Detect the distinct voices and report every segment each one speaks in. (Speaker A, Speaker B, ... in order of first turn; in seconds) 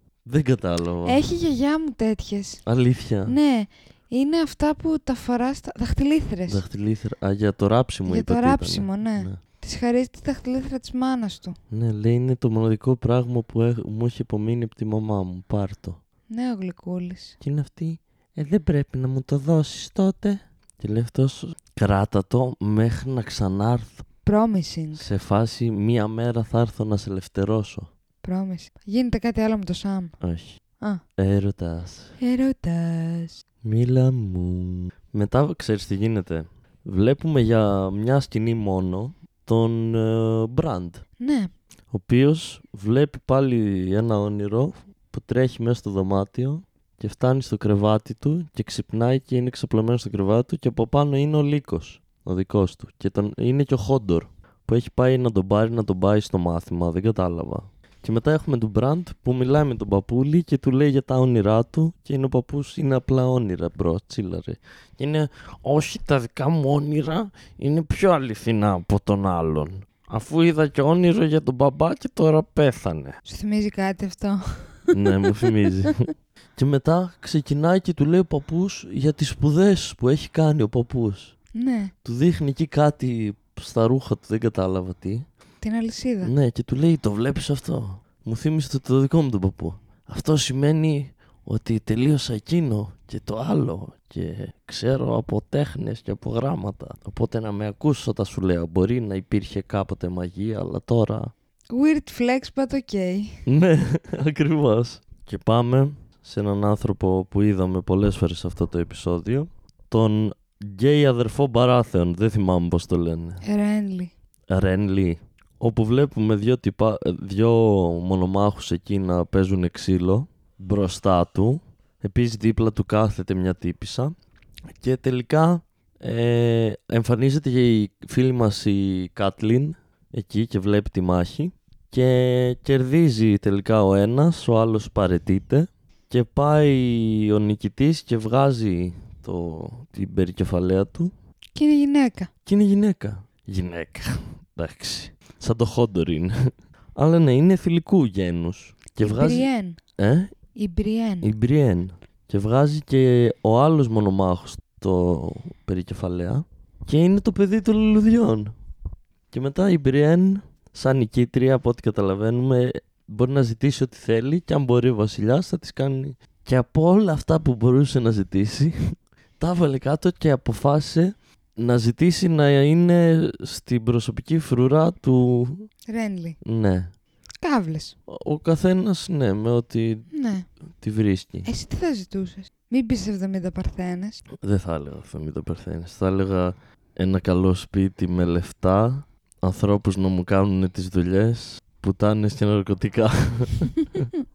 Speaker A: 0.3-1.2, 2.7-3.4, 6.5-9.4, 11.7-16.0, 17.4-24.0, 25.0-27.9, 30.2-30.6, 31.2-32.1, 33.6-41.0, 41.9-73.2, 74.9-76.0, 76.6-81.3, 82.0-85.2, 86.2-101.3, 103.5-113.4, 114.5-124.1, 124.7-141.1, 142.5-146.3, 146.9-149.5, 150.0-150.3, 151.2-158.5, 159.3-168.9, 169.4-175.7, 176.4-176.9, 178.1-180.1, 180.8-181.5, 184.4-194.1
Speaker B: 1.1-2.6, 3.3-6.6, 8.1-11.6, 16.3-17.4, 24.2-25.1, 28.2-30.1, 32.2-33.4, 41.2-41.5, 73.3-76.1, 81.5-81.9, 85.6-86.3, 101.7-103.4, 113.4-114.1, 141.6-142.3, 149.0-149.8, 150.6-151.3, 175.9-176.4, 177.4-177.9, 180.1-180.5, 181.4-184.2